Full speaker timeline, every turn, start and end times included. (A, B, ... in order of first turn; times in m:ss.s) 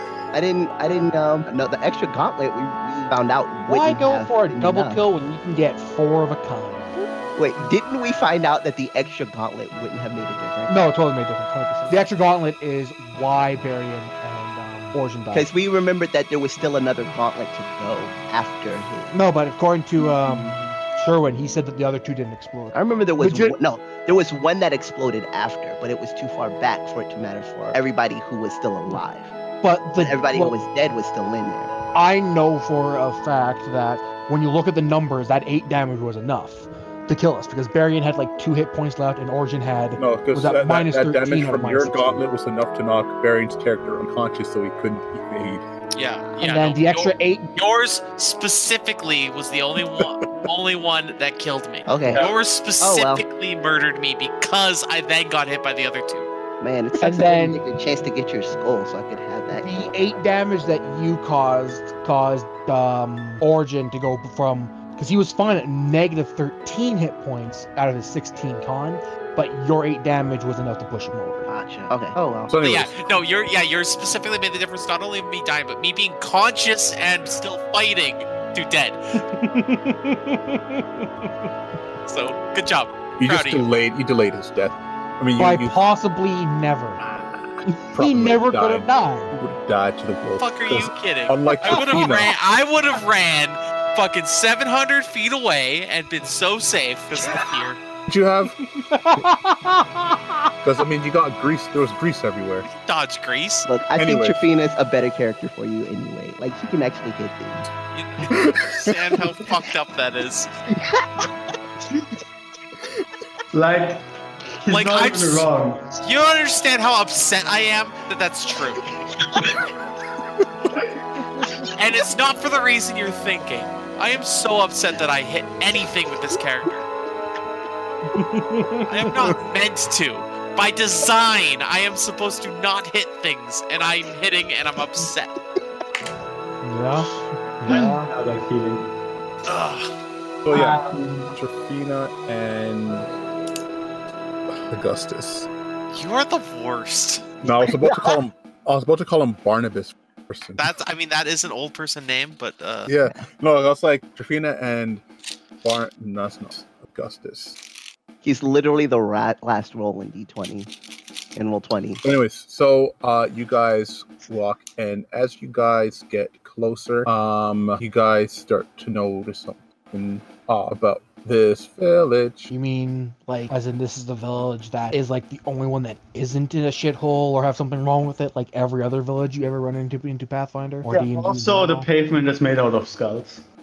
0:00.3-0:05.0 A
0:03.6-0:07.1 B
0:07.4-0:10.8 A
0:10.7-0:15.5 B
0:15.3-0:19.1 A
0:19.1-0:23.6 B
0:22.7-0:29.4 A
0:29.6-0:30.6 B
0:30.0-0:31.8 A
0:31.9-0:42.2 B
0:40.0-0:45.6 C
0:45.9-0:56.3 D
0:46.4-0:47.5 B
0:51.9-0:52.3 A
0:52.1-0:52.3 E
0:52.8-0:53.2 A
0:56.6-1:00.2 A
0:57.0-0:57.6 B
0:59.5-1:11.5 B
1:11.5-1:12.5 A
1:12.5-1:13.2 C
1:12.6-1:19.2 D
1:19.2-1:21.3 B
1:22.1-1:23.7 D
1:23.2-1:25.8 C
1:25.4-1:27.0 B
1:27.7-1:29.4 B
1:27.9-1:32.3 C
1:30.4-1:37.8 D
1:31.7-1:32.0 B
1:38.1-1:38.6 C
1:38.6-1:40.5 B
1:40.6-1:42.7 C
1:42.7-1:43.7 D
1:43.7-1:47.6 A
1:44.0-1:44.4 C
1:47.9-1:50.5 D
1:48.3-1:49.0 C
1:53.5-1:54.0 E
1:54.6-1:55.8 E
1:54.7-1:55.5 D
1:56.0-1:59.0 D
2:01.8-2:06.9 D
2:08.1-2:09.4 B
2:08.9-2:15.4 D
2:16.6-2:18.1 B
2:17.6-2:18.9 E
2:19.4-2:19.9 D
2:20.4-2:23.1 C
2:20.5-2:21.4 E
2:24.5-2:25.5 C
2:25.9-2:27.3 D
2:27.4-2:30.7 C
2:27.6-2:28.2 A
2:30.6-2:32.9 D
2:32.9-2:35.0 C
2:35.6-2:37.6 C
2:38.2-2:40.7 A
2:41.4-2:42.0 A
2:42.0-2:52.5 C
2:52.5-3:01.9 B
3:00.9-3:03.4 E